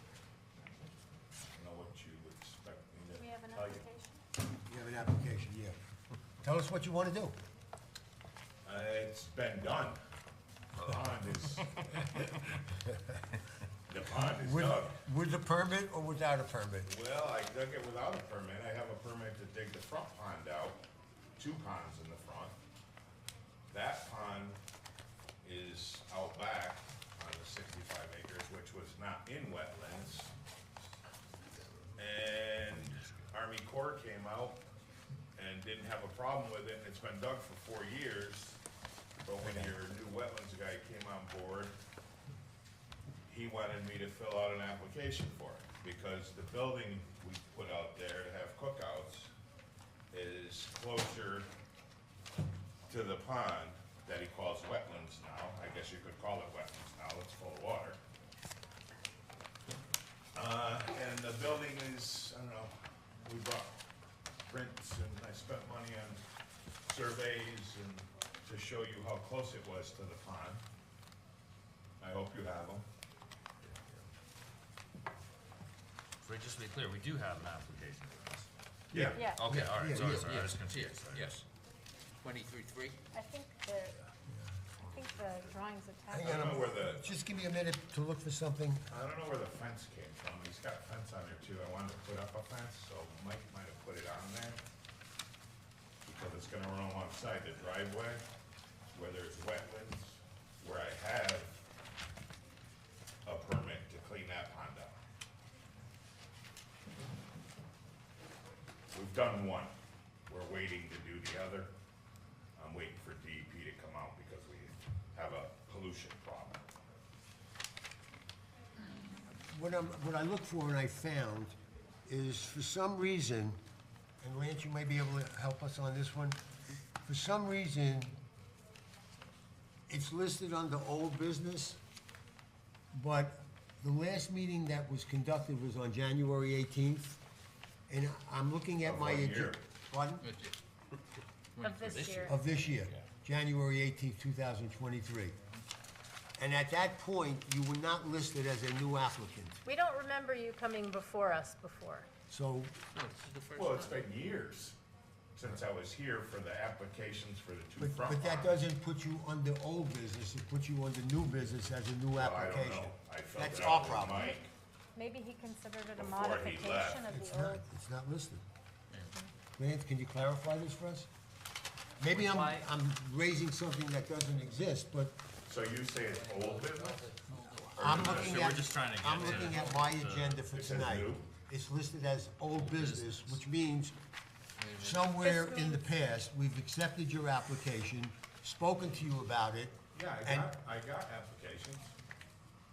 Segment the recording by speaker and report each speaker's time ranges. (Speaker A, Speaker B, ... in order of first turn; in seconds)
Speaker A: 1.6-3.8, 8.7-10.0, 10.8-11.9, 13.9-15.0, 16.9-20.8, 21.4-22.6, 23.7-24.6, 25.4-30.3, 32.0-34.6, 35.4-38.6, 39.2-41.7, 43.3-49.3, 50.1-51.5, 52.9-58.0, 60.4-63.8, 64.5-66.2, 66.8-70.6, 72.0-72.8, 78.9-79.2, 86.2-87.1, 88.9-94.6, 96.1-98.2, 98.9-101.6, 103.3-105.0, 108.9-109.7, 110.3-111.7, 112.6-116.7, 138.8-139.6, 153.6-154.8, 155.4-158.6, 162.1-164.5, 165.9-167.1, 175.5-177.1, 177.7-178.5, 180.5-181.2, 189.9-191.9
Speaker B: 3.2-4.2, 79.1-79.4, 83.1-84.0, 84.8-86.7, 141.6-142.4, 149.7-152.1, 164.1-164.4, 164.9-167.6, 185.2-185.8
Speaker C: 4.7-5.8, 6.4-7.4, 14.1-16.9, 39.4-39.7, 78.9-80.4, 86.1-88.9, 119.3-121.5, 122.1-123.6, 124.2-126.4, 127.0-128.2, 129.9-131.8, 132.9-137.2, 137.9-140.3, 142.2-145.4, 146.4-149.6, 152.3-152.8, 157.8-164.4, 167.1-168.4, 169.6-171.1, 172.0-175.2, 177.7-183.9, 184.8-190.5
Speaker D: 11.8-12.3, 32.9-33.3, 76.2-78.5, 79.2-81.3, 172.1-172.6, 177.8-180.4, 182.5-183.4
Speaker E: 79.5-81.5, 82.2-83.0, 140.2-140.6, 141.6-142.8, 152.9-154.0, 176.1-178.2, 179.3-179.8, 184.6-185.1